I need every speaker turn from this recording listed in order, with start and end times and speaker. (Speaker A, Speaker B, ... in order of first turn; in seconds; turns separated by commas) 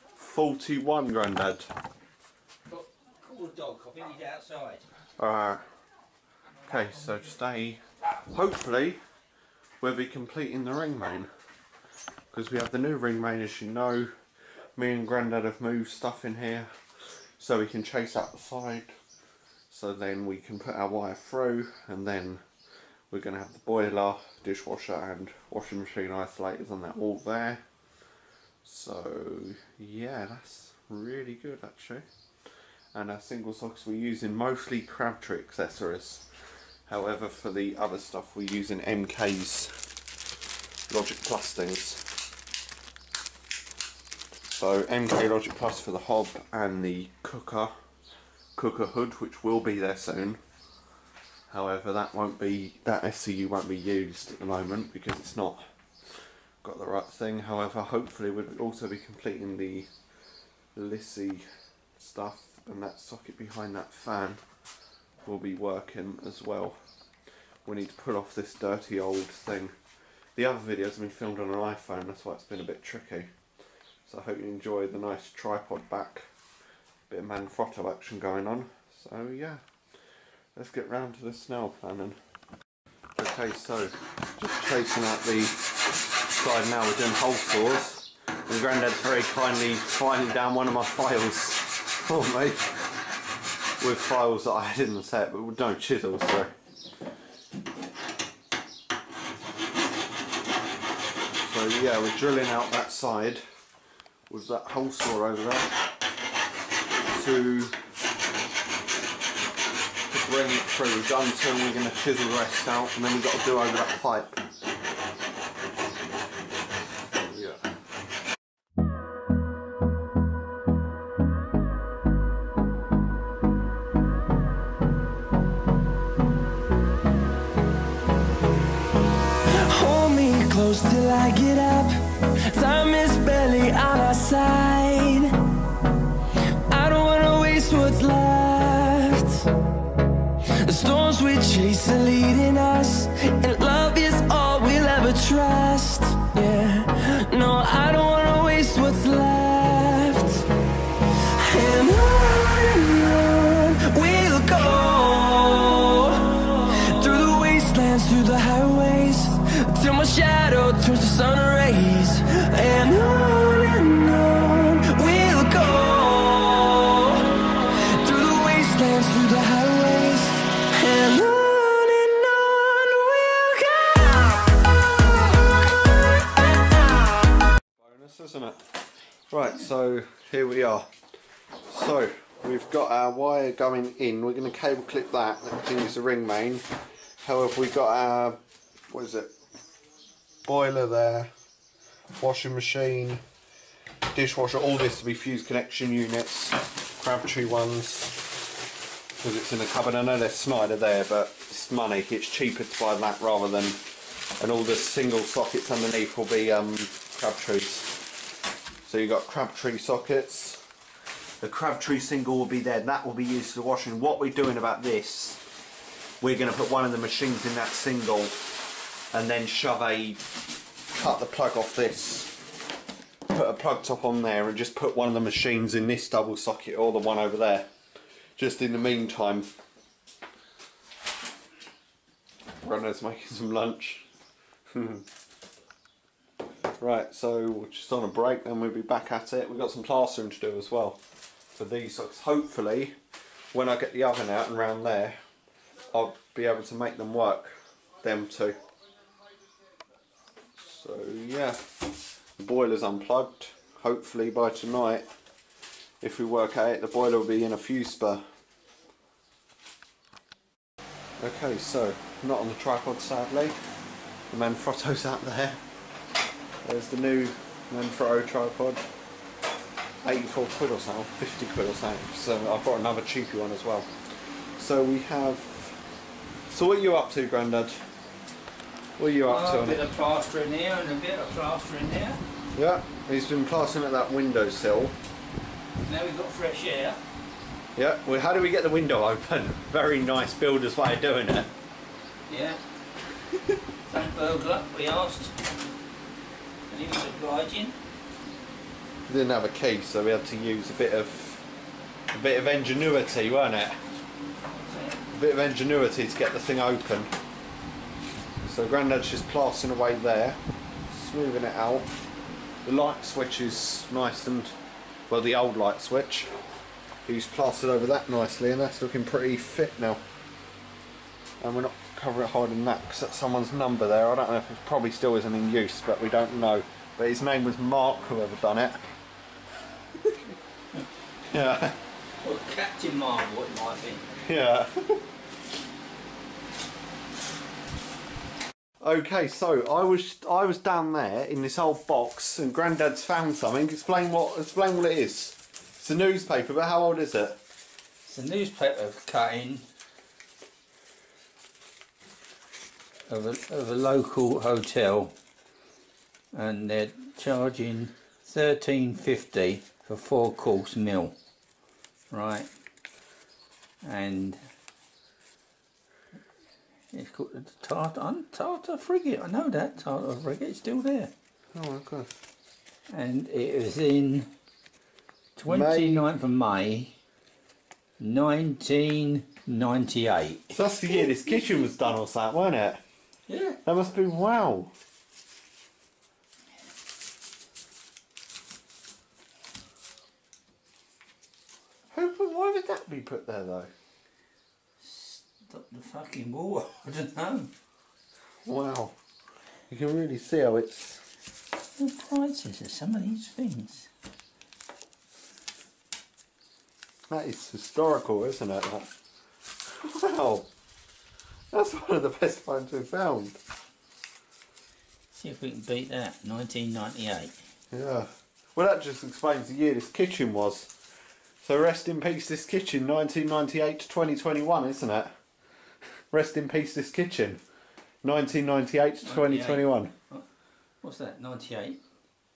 Speaker A: 0.1-1.7, Speaker B: 2.7-4.8, Speaker A: 5.2-5.6, Speaker A: 6.6-9.0, Speaker A: 9.8-11.3, Speaker A: 12.3-14.1, Speaker A: 14.8-16.7, Speaker A: 17.4-18.9, Speaker A: 19.7-22.4, Speaker A: 23.1-27.6, Speaker A: 28.6-32.0, Speaker A: 32.9-36.3, Speaker A: 36.9-39.7, Speaker A: 40.9-42.0, Speaker A: 44.5-47.7, Speaker A: 48.5-50.4, Speaker A: 51.5-55.6, Speaker A: 56.6-59.9, Speaker A: 60.7-61.4, Speaker A: 62.0-64.4, Speaker A: 65.2-66.8, Speaker A: 67.6-69.7, Speaker A: 70.3-73.3, Speaker A: 74.1-76.2, Speaker A: 77.1-79.6, Speaker A: 80.5-82.2, Speaker A: 83.2-85.6, Speaker A: 86.2-92.7, Speaker A: 93.8-96.5, Speaker A: 101.4-103.4, Speaker A: 104.3-105.7, Speaker A: 107.1-107.8, Speaker A: 110.1-114.4, Speaker A: 117.1-117.6, Speaker C: 129.4-135.5, Speaker C: 136.3-139.5, Speaker C: 140.4-150.5, Speaker C: 151.1-174.5, Speaker A: 177.8-178.6, Speaker A: 179.3-180.9, Speaker A: 181.7-186.6, Speaker A: 187.2-188.4, Speaker A: 188.9-189.3, Speaker A: 190.4-191.3, Speaker A: 192.2-193.2, Speaker A: 194.1-198.4, Speaker A: 199.2-208.0, Speaker A: 208.8-210.6, Speaker A: 211.4-215.4, Speaker A: 216.2-218.5, Speaker A: 219.1-220.2, Speaker A: 220.9-222.3, Speaker A: 223.3-227.7, Speaker A: 228.4-229.5, Speaker A: 232.6-234.0, Speaker A: 234.7-235.1, Speaker A: 236.8-241.0, Speaker A: 241.5-242.9, Speaker A: 243.5-245.2, Speaker A: 245.9-248.6, Speaker A: 250.6-251.6, Speaker A: 252.4-255.1, Speaker A: 256.0-258.2, Speaker A: 261.2-263.6, Speaker A: 264.3-265.6, Speaker A: 266.6-268.8, Speaker A: 270.0-273.9, Speaker A: 274.6-275.8, Speaker A: 276.5-277.8, Speaker A: 279.0-279.8, Speaker B: 279.2-282.2, Speaker A: 282.5-284.9, Speaker B: 285.8-287.0, Speaker A: 287.8-291.5, Speaker B: 292.3-292.6, Speaker B: 293.9-295.4, Speaker B: 296.7-297.8, Speaker A: 299.1-301.5, Speaker A: 302.1-303.8, Speaker B: 304.7-304.9, Speaker A: 305.1-307.1, Speaker A: 308.4-311.9, Speaker A: 312.6-314.5, Speaker A: 315.1-316.3, Speaker A: 317.1-320.0, Speaker A: 321.4-328.8, Speaker A: 331.3-331.8, Speaker B: 332.2-334.1, Speaker A: 334.2-335.0, Speaker A: 338.8-347.4, Speaker B: 348.1-349.6, Speaker B: 353.1-355.1, Speaker B: 356.3-361.1, Speaker B: 362.1-362.5, Speaker B: 363.8-364.4, Speaker B: 366.9-371.1, Speaker A: 371.5-372.1, Speaker B: 372.9-374.3, Speaker B: 375.4-376.9, Speaker A: 375.4-376.1, Speaker B: 378.0-380.5, Speaker A: 380.5-382.8, Speaker B: 383.3-383.6, Speaker A: 383.6-384.7, Speaker A: 391.9-393.7, Speaker B: 394.8-397.5, Speaker A: 398.4-398.9, Speaker A: 399.7-401.0, Speaker B: 401.8-403.9, Speaker A: 407.1-408.9, Speaker A: 409.7-410.5, Speaker A: 411.5-413.4, Speaker B: 415.1-417.3, Speaker A: 417.7-420.7, Speaker A: 421.4-425.1, Speaker A: 426.1-427.4, Speaker A: 428.0-429.9, Speaker B: 429.0-430.2, Speaker B: 430.8-431.8